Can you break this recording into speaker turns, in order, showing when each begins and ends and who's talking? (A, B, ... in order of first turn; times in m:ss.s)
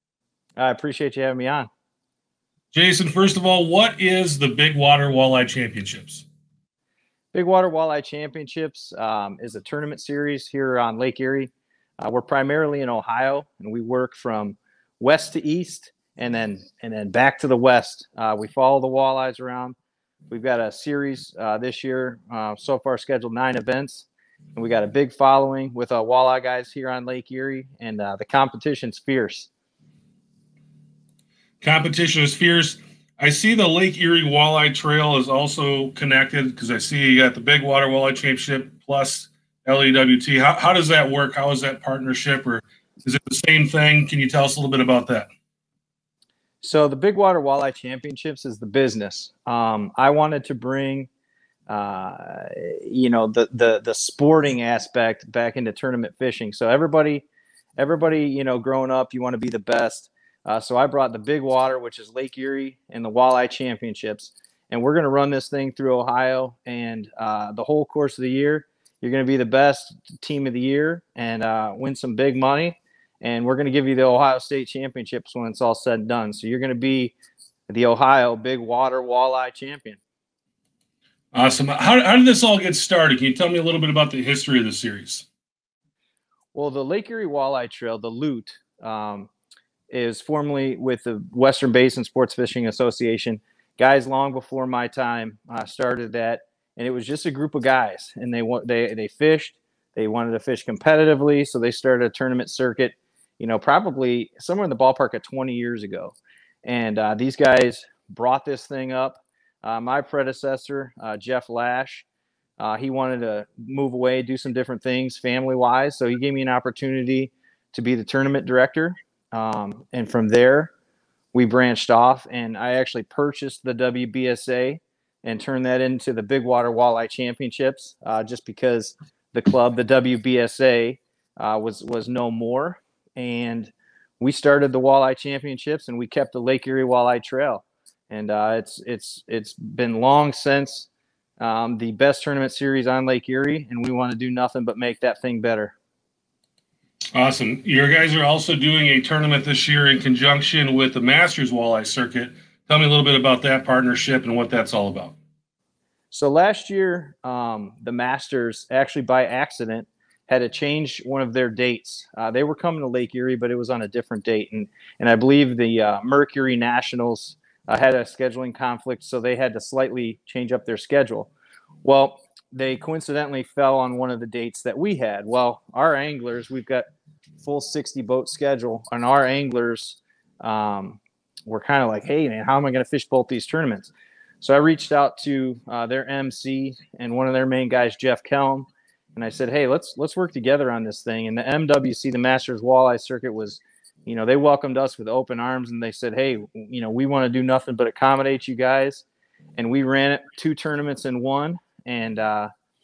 0:00.6-0:01.7 A
0:02.7-0:06.3 B
0:07.3-0:19.8 A
0:20.3-0:29.5 A
0:31.6-0:45.3 B
0:46.6-0:51.1 A
0:51.7-1:17.2 A
1:17.7-1:20.0 A
1:21.3-1:25.3 B
1:26.5-1:29.3 A
1:29.9-1:52.1 A
1:52.6-2:00.7 A
2:01.3-2:25.8 A
2:27.1-2:35.2 B
2:36.1-2:51.3 A
2:51.8-2:56.8 A
2:57.4-3:19.0 A
3:19.6-3:22.5 A